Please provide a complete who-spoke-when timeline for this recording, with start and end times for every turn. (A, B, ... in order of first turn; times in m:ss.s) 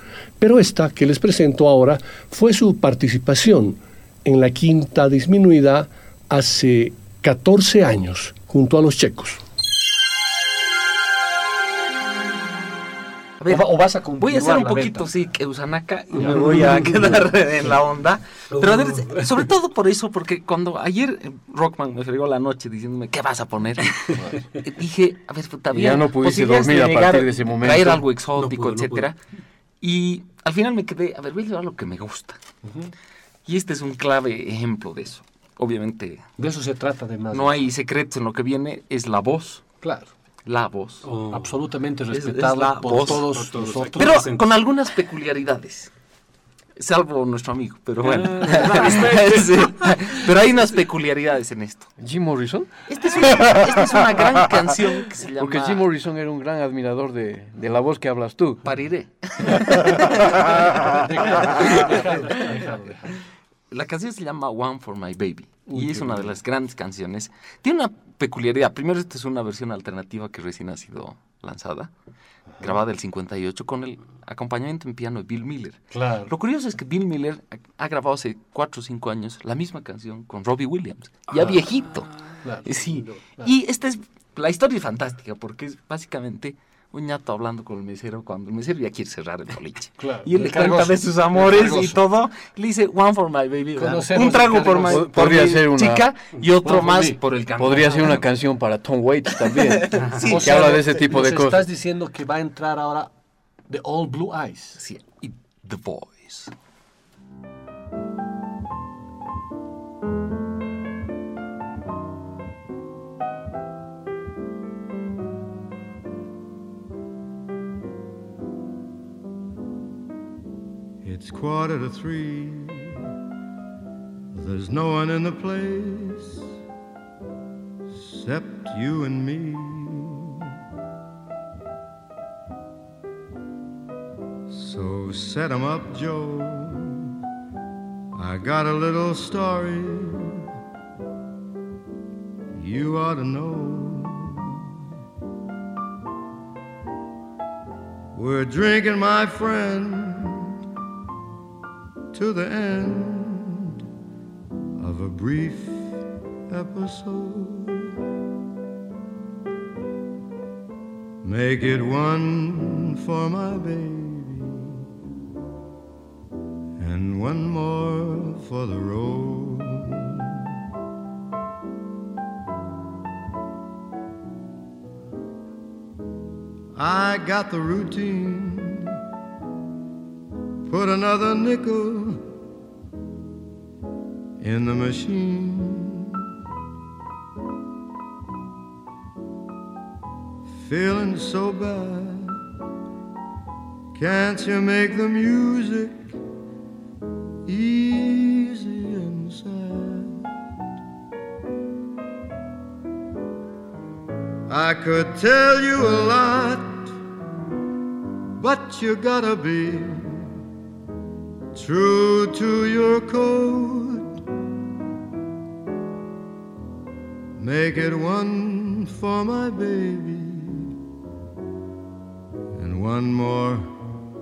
0:00.4-0:09.4 A
0:13.4-0:29.2 B
0:13.5-0:15.1 C
0:16.1-0:16.7 C
0:16.7-0:17.0 D
0:18.6-0:19.3 D
0:25.7-0:28.2 E
0:25.8-0:27.2 D
0:28.3-0:29.1 D
0:29.8-0:32.4 B
0:32.6-0:32.9 C
0:33.4-0:36.2 B
0:36.4-0:37.6 C
0:37.3-0:39.7 B
0:39.8-0:40.1 C
0:40.5-0:41.1 B
0:41.0-0:41.5 D
0:41.2-0:44.3 C
0:42.1-0:45.9 B
0:42.9-0:44.5 D
0:46.8-0:51.9 B
0:48.0-0:50.8 D
0:52.0-0:53.9 E
0:52.9-0:55.9 B
0:55.4-0:58.6 E
0:58.6-1:00.4 B
1:01.0-1:03.2 C
1:01.3-1:02.7 B
1:03.7-1:11.9 B
1:05.7-1:06.4 C
1:12.6-1:38.3 B
1:15.9-1:16.3 C
1:22.4-1:23.5 C
1:22.6-1:23.2 D
1:30.0-1:32.0 C
1:33.8-1:35.7 C
1:34.9-1:36.1 E
1:36.6-1:37.2 C
1:37.5-1:41.7 E
1:39.3-1:40.8 B
1:40.2-1:43.1 C
1:43.7-1:44.8 C
1:44.8-1:46.5 B
2:01.0-2:03.0 F
2:04.3-2:06.4 F
2:08.0-2:10.3 F
2:14.5-2:17.0 F
2:18.2-2:20.3 F
2:22.6-2:24.5 F
2:28.1-2:30.5 F
2:32.1-2:33.6 F
2:34.8-2:36.0 F
2:36.5-2:37.9 F
2:41.2-2:44.7 F
2:46.8-2:50.0 F
2:56.8-2:58.9 F
3:00.7-3:02.2 F
3:04.4-3:06.2 F
3:10.7-3:12.4 F
3:14.0-3:16.1 F
3:17.5-3:20.3 F
3:24.5-3:26.9 F
3:28.4-3:30.3 F
3:31.6-3:34.1 F
3:37.4-3:40.7 F
3:42.6-3:43.7 F